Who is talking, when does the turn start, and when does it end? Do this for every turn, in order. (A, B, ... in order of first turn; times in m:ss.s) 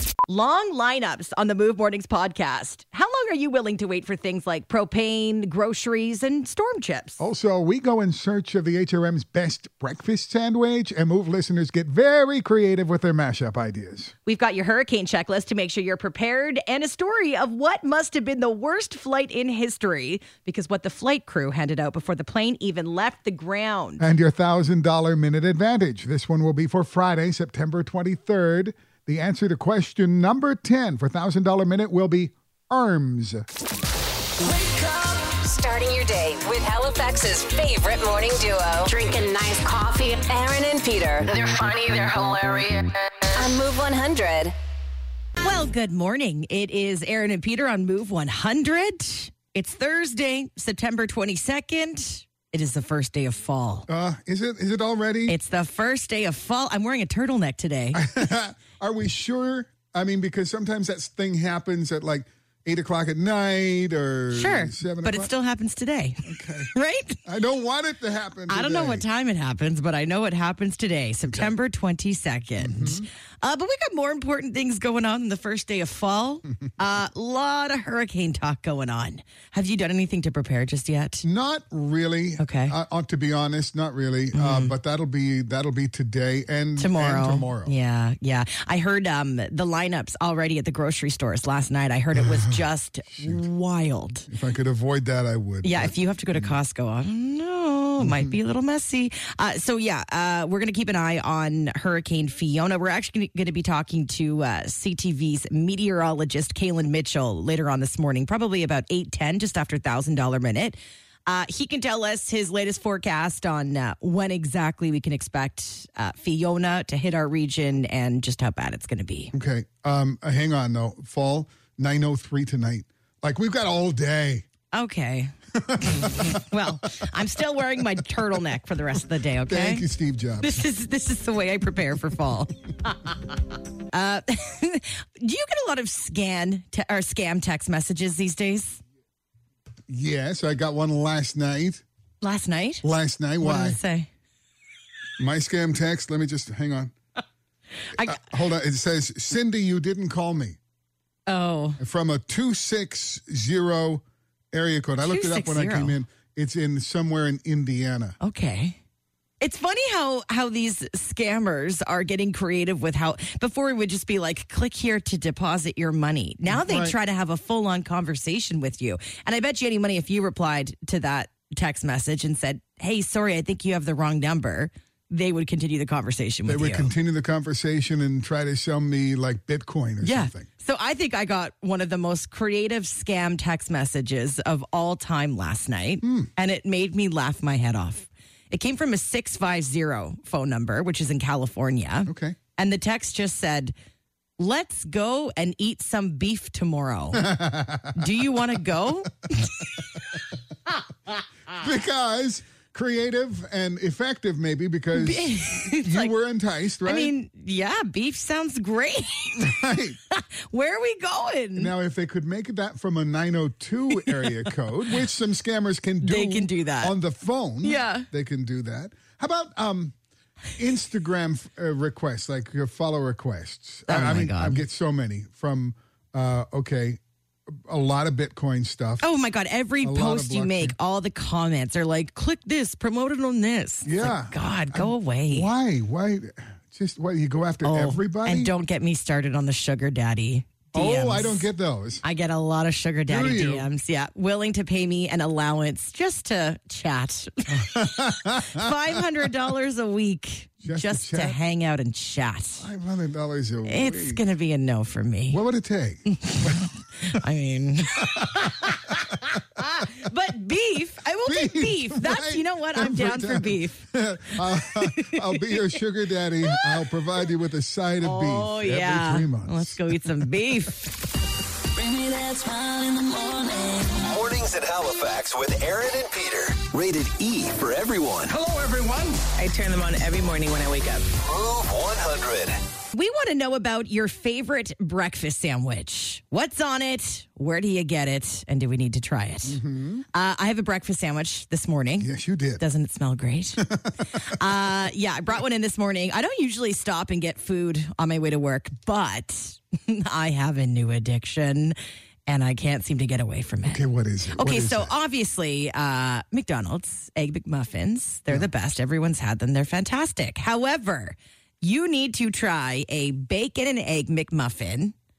0:00.3-0:07.2 A
0:07.2-0:14.1 B
0:14.2-0:24.0 A
0:24.0-0:33.4 B
0:34.5-0:44.5 C
0:45.4-0:53.9 A
0:53.9-0:55.4 B
0:55.3-0:58.0 A
0:57.9-1:05.3 B
1:04.3-1:07.2 A
1:06.2-1:06.7 B
1:07.2-1:09.0 B
1:08.5-1:21.2 A
1:12.6-1:13.1 B
1:21.2-1:27.7 B
1:22.4-1:22.8 A
1:24.3-1:24.7 A
1:26.8-1:34.3 A
1:32.2-1:32.6 B
1:33.2-1:33.4 B
1:34.3-1:36.6 B
1:35.6-1:59.3 A
1:38.0-1:38.3 B
1:59.3-2:04.5 B
2:04.7-2:05.3 A
2:05.5-2:06.4 B
2:05.9-2:09.8 A
2:09.5-2:10.6 B
2:10.4-2:12.9 A
2:13.9-2:18.8 A
2:19.9-2:21.8 B
2:22.2-2:22.8 A
2:22.8-2:23.8 B
2:23.4-2:24.1 A
2:25.2-2:26.9 B
2:27.9-2:28.2 A
2:28.0-2:30.6 B
2:31.3-2:31.8 A
2:31.8-2:38.2 B
2:35.0-2:36.0 A
2:38.2-2:38.8 A
2:39.4-2:56.9 A
2:46.5-2:46.9 B
2:56.4-3:00.5 B
3:00.0-3:13.7 A
3:06.0-3:06.3 B
3:12.1-3:12.4 B
3:14.4-3:17.3 A
3:17.1-3:18.2 B
3:17.9-3:19.5 A
3:21.6-3:27.1 B
3:24.9-3:26.1 A
3:26.8-3:29.5 A
3:29.4-3:30.0 B
3:30.1-3:31.7 A
3:31.5-3:40.0 B
3:36.0-3:36.9 A
3:37.6-3:38.1 A
3:40.6-3:47.0 B
3:43.9-3:44.6 A
3:47.5-3:49.0 B
3:49.0-3:55.5 A
3:49.8-3:50.8 B
3:53.8-3:58.5 B
3:57.6-4:01.4 A
4:00.7-4:02.0 B
4:02.0-4:12.7 A
4:03.1-4:03.7 B
4:07.5-4:09.0 B
4:10.6-4:11.4 B
4:12.6-4:14.2 B
4:13.7-4:15.4 A
4:15.3-4:17.2 B
4:16.1-4:23.8 A
4:18.0-4:19.8 B
4:21.2-4:30.3 B
4:24.4-4:25.7 A
4:26.4-4:26.8 A
4:28.0-4:30.9 A
4:31.8-4:34.0 D
4:34.0-4:38.3 E
4:39.2-4:41.1 D
4:41.2-4:42.6 E
4:42.9-4:49.6 A
4:49.5-4:50.0 B
4:50.1-4:53.6 A
4:52.0-4:52.6 B
4:53.6-4:54.4 B
4:54.2-5:03.8 A
5:03.6-5:04.9 B
5:04.3-5:14.9 A